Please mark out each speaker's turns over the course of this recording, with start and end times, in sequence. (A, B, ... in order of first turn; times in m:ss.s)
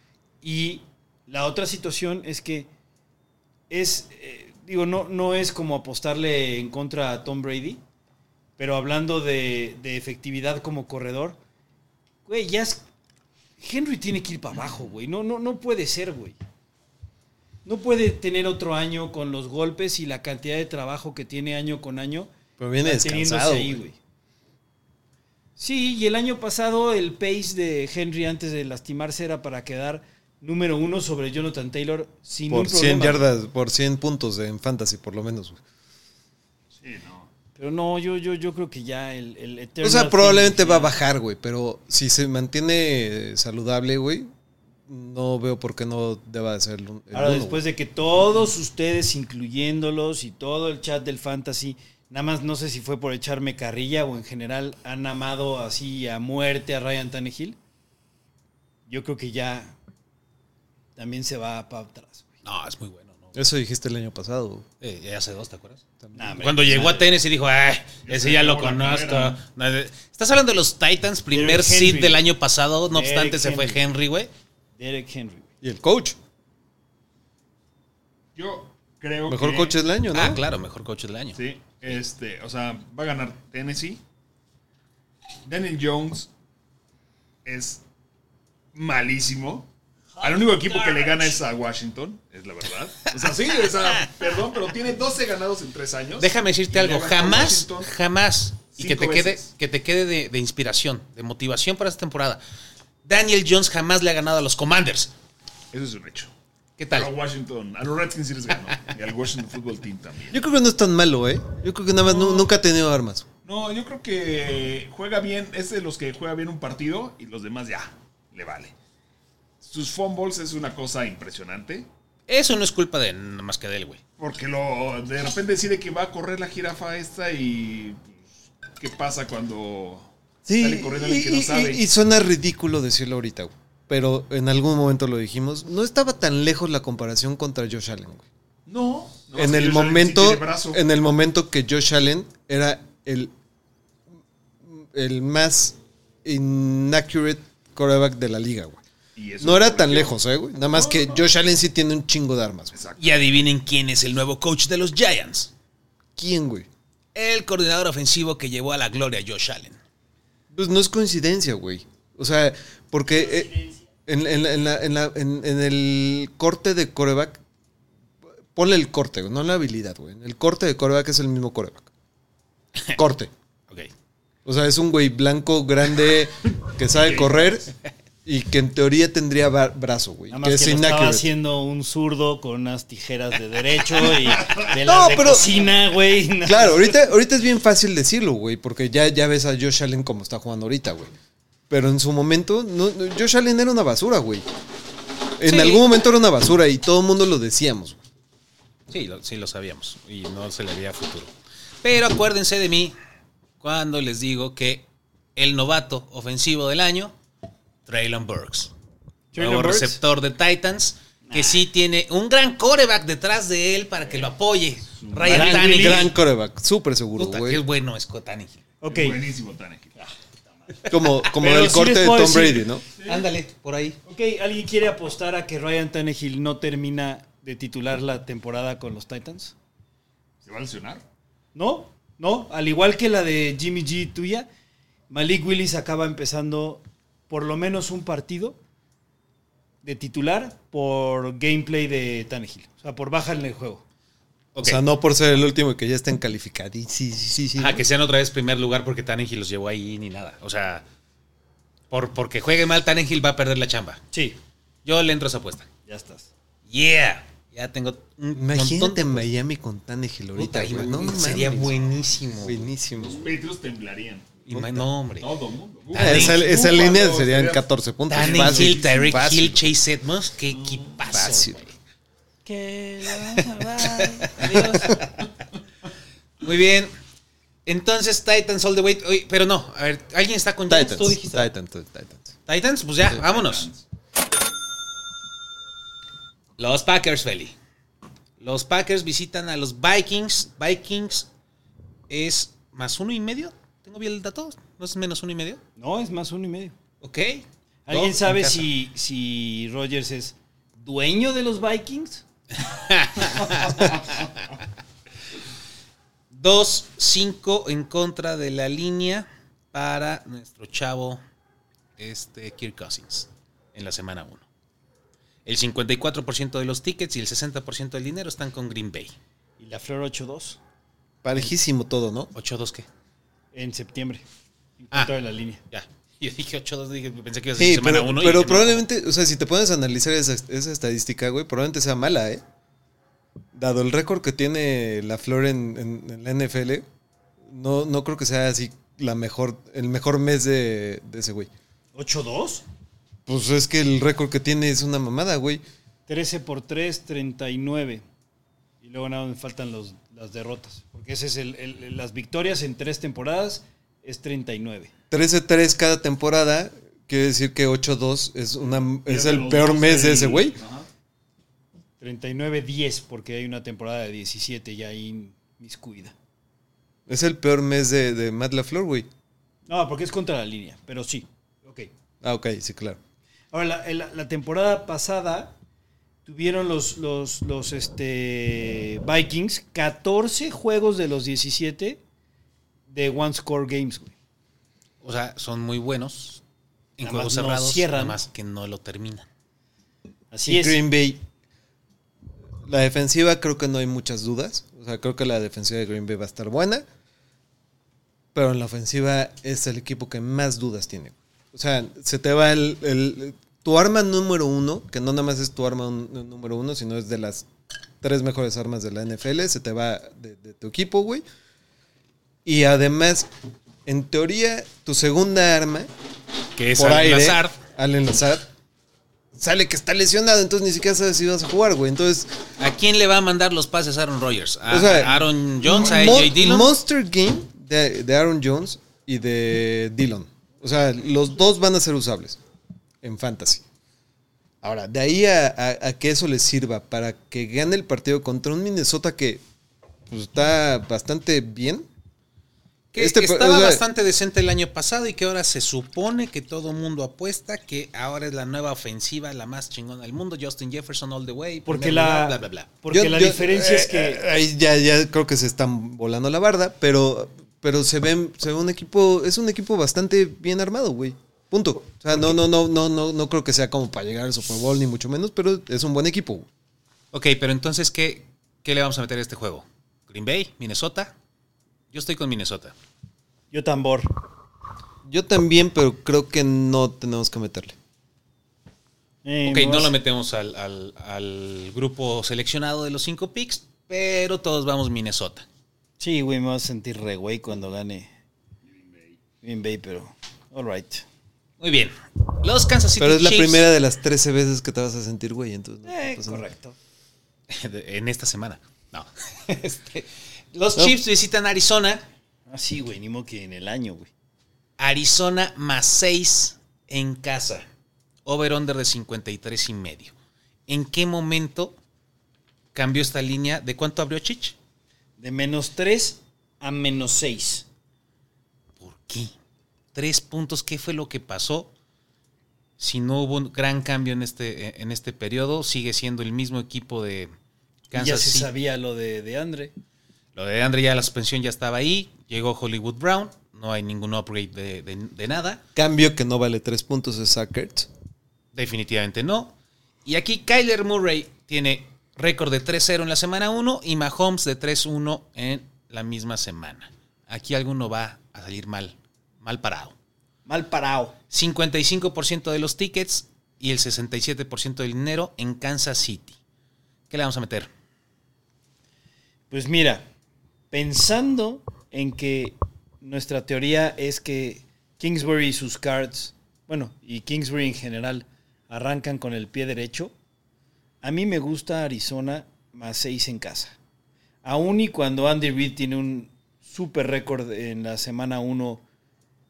0:00.4-0:02.7 A
0:03.7-0:07.8 A
0:08.6-0:11.4 A
0:12.3-0:12.8 A
0:13.6-0:16.4 A
0:17.6-0:22.3 A
0:22.6-0:23.8 B
0:22.8-0:24.0 A
0:25.6-0:33.3 A
0:32.5-0:35.6 B
0:36.8-0:37.3 C
0:37.6-0:40.9 A
0:39.8-0:44.3 B
0:44.9-0:47.6 B
0:47.1-0:57.6 A
0:58.9-0:59.7 A
1:01.0-1:02.3 A
1:02.4-1:03.4 D
1:03.3-1:04.6 B
1:04.8-1:05.8 D
1:06.0-1:06.6 B
1:06.2-1:07.1 A
1:06.4-1:14.3 D
1:08.0-1:09.4 C
1:11.3-1:12.2 A
1:12.9-1:13.9 A
1:14.8-1:15.5 A
1:15.6-1:16.2 B
1:18.4-1:19.8 C
1:19.3-1:20.4 B
1:20.1-1:22.0 D
1:21.4-1:24.0 C
1:25.5-1:26.3 C
1:27.4-1:27.8 C
1:28.7-1:29.7 C
1:30.2-1:31.4 A
1:30.2-1:37.9 C
1:36.2-1:42.4 D
1:38.7-1:39.5 C
1:43.0-1:45.1 D
1:45.7-1:46.3 C
1:46.8-1:47.1 D
1:46.9-1:50.4 C
1:50.3-1:53.3 B
1:52.0-1:52.5 C
1:53.4-1:58.7 C
1:59.6-2:01.9 C
2:02.3-2:04.0 D
2:04.2-2:11.8 C
2:10.5-2:18.3 B
2:18.7-2:20.8 C
2:19.3-2:23.3 B
2:24.6-2:28.8 B
2:29.2-2:30.2 C
2:29.4-2:32.8 B
2:30.7-2:31.2 C
2:32.7-2:33.1 C
2:33.0-2:35.5 D
2:36.2-2:36.7 B
2:37.2-2:39.8 D
2:40.5-2:43.5 B
2:43.3-2:43.8 A
2:44.1-2:47.4 B
2:48.6-2:51.9 B
2:53.0-2:53.3 B
2:54.4-2:57.7 B
2:58.3-3:01.2 B
3:00.3-3:07.0 A
3:04.8-3:05.6 B
3:06.4-3:11.1 B
3:11.7-3:14.4 B
3:15.4-3:18.0 B
3:15.5-3:15.8 D
3:18.9-3:21.3 D
3:21.8-3:22.9 D
3:23.6-3:27.2 D
3:27.9-3:28.7 D
3:29.3-3:30.0 A
3:29.4-3:36.2 D
3:31.3-3:31.6 A
3:34.8-3:35.4 C
3:35.3-3:36.1 A
3:35.4-3:37.6 B
3:37.2-3:38.6 D
3:38.8-3:39.3 A
3:38.9-3:40.0 C
3:40.9-3:42.8 B
3:41.3-3:42.7 A
3:43.0-3:44.0 D
3:44.1-3:49.5 A
3:50.4-3:51.0 C
3:51.6-3:54.5 A
3:55.1-3:58.6 A
3:59.8-4:03.8 A
4:04.6-4:04.8 D
4:04.6-4:07.8 B
4:07.6-4:10.8 D
4:11.9-4:14.0 D
4:14.1-4:14.4 A
4:14.8-4:15.7 D
4:15.9-4:16.3 A
4:16.7-4:19.3 D
4:18.3-4:21.7 B
4:20.4-4:22.6 D
4:22.4-4:23.2 B
4:23.0-4:24.4 C
4:24.5-4:25.3 D
4:24.5-4:24.9 B
4:25.2-4:29.4 C
4:25.9-4:26.4 D
4:26.0-4:29.6 B
4:28.1-4:31.8 D
4:30.5-4:31.0 C
4:31.1-4:31.6 B
4:32.5-4:35.0 A
4:33.4-4:35.0 D
4:36.4-4:36.9 D
4:37.7-4:41.5 D
4:40.7-4:42.4 B
4:42.5-4:43.7 D
4:43.2-4:43.8 C
4:46.6-4:47.5 D
4:48.4-4:51.3 D
4:52.1-4:55.6 D
4:55.8-4:56.8 A
4:57.0-4:58.7 D
4:57.9-5:02.2 A
5:02.6-5:04.5 D
5:03.4-5:04.0 A
5:06.3-5:11.2 D
5:12.0-5:14.5 D
5:15.5-5:19.2 D
5:19.6-5:20.6 A
5:21.2-5:22.3 B
5:22.3-5:22.9 D
5:23.5-5:24.2 A
5:24.8-5:25.6 A
5:25.7-5:28.8 D
5:27.6-5:32.4 B
5:33.5-5:36.8 B
5:37.4-5:41.5 B
5:42.0-5:42.6 A
5:43.3-5:45.6 B
5:46.1-5:48.0 A
5:48.8-5:54.9 A
5:55.1-6:00.6 B
5:59.1-6:00.9 C
6:02.0-6:06.1 A
6:07.1-6:09.1 B
6:09.7-6:11.9 A
6:12.2-6:13.0 B
6:13.5-6:15.6 A
6:16.3-6:22.0 A
6:22.9-6:24.1 A
6:25.0-6:26.4 D
6:27.0-6:29.3 D
6:27.0-6:28.2 A
6:30.3-6:30.8 A
6:30.5-6:31.2 B
6:32.6-6:36.8 B
6:38.3-6:47.5 B
6:48.0-6:51.2 B
6:52.4-6:53.3 B
6:53.9-6:55.9 B
6:56.6-6:57.6 D
6:56.8-6:58.5 B
6:59.3-7:02.3 B
7:02.6-7:06.7 D
7:04.7-7:12.4 B
7:13.0-7:13.6 B
7:14.6-7:19.4 B
7:20.1-7:21.9 B
7:22.9-7:32.7 D
7:23.0-7:23.8 B
7:31.7-7:34.2 A
7:32.9-7:46.5 B
7:47.1-7:51.1 D
7:51.9-7:52.8 D
7:53.5-7:54.1 A
7:55.0-7:57.8 B
7:59.2-7:59.9 A
7:59.4-8:05.5 D
8:06.0-8:08.1 A
8:09.4-8:11.0 A
8:11.6-8:13.7 D
8:13.0-8:16.4 B
8:15.9-8:16.8 A
8:17.5-8:22.0 D
8:22.5-8:24.1 A
8:24.8-8:27.7 D
8:28.3-8:30.1 D
8:30.7-8:31.8 D
8:32.7-8:34.6 D
8:35.2-8:37.6 A
8:38.8-8:39.3 D
8:39.9-8:41.7 D
8:42.8-8:47.3 D
8:47.9-8:48.5 D
8:47.9-8:49.7 A
8:50.4-8:55.6 D
8:55.8-8:57.9 B
8:58.5-8:59.5 D
9:00.0-9:10.0 D
9:10.5-9:11.2 A
9:11.3-9:16.4 D
9:17.1-9:17.7 D
9:19.5-9:20.1 A
9:20.7-9:30.1 A
9:31.0-9:33.8 A
9:34.4-9:38.8 A